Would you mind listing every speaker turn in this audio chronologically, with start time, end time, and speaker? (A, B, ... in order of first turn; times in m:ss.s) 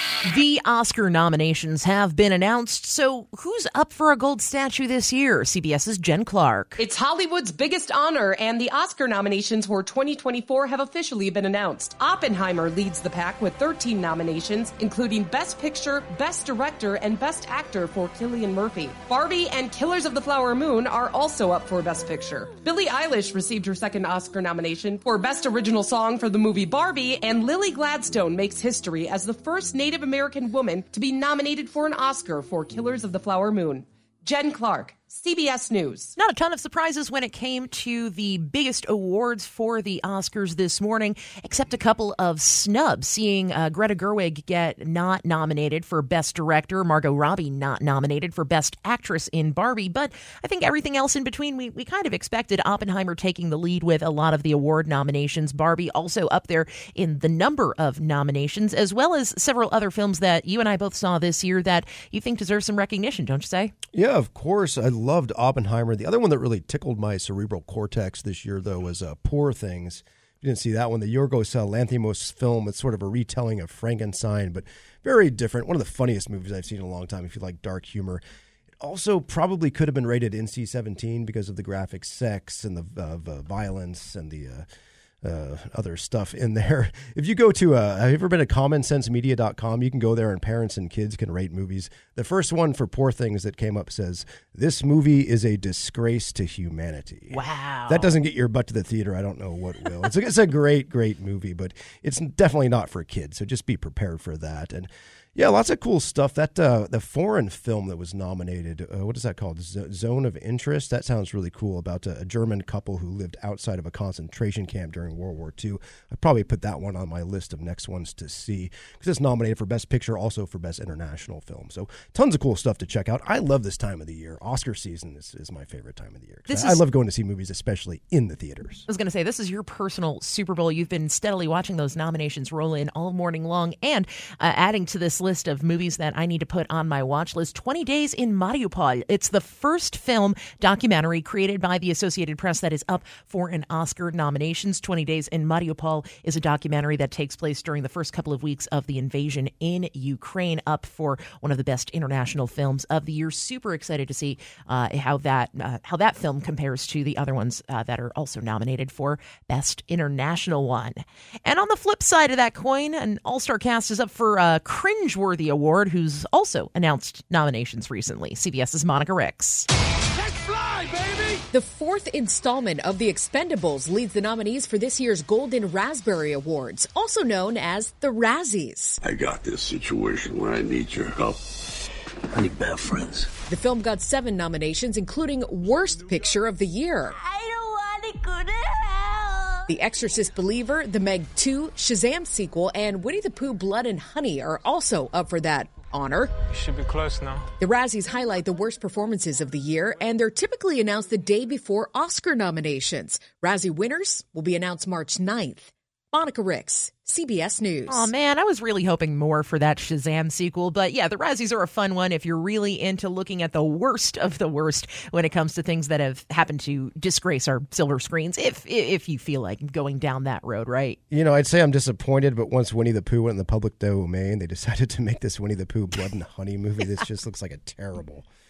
0:00.2-0:06.8 A
0:06.8-0:36.2 B
0:36.2-1:03.7 A
1:03.9-1:18.2 C
1:18.8-1:24.7 C
1:25.2-2:08.9 C
1:37.3-1:38.1 A
2:06.5-2:06.8 A
2:08.9-2:49.7 A
2:50.3-2:51.3 D
2:51.5-2:59.0 E
2:59.0-3:01.4 F
3:02.3-3:03.3 F
3:03.5-3:07.2 E
3:07.1-3:09.7 G
3:09.7-3:16.4 E
3:16.5-3:17.5 D
3:17.6-3:28.1 E
3:27.9-3:41.0 A
3:41.1-3:48.2 C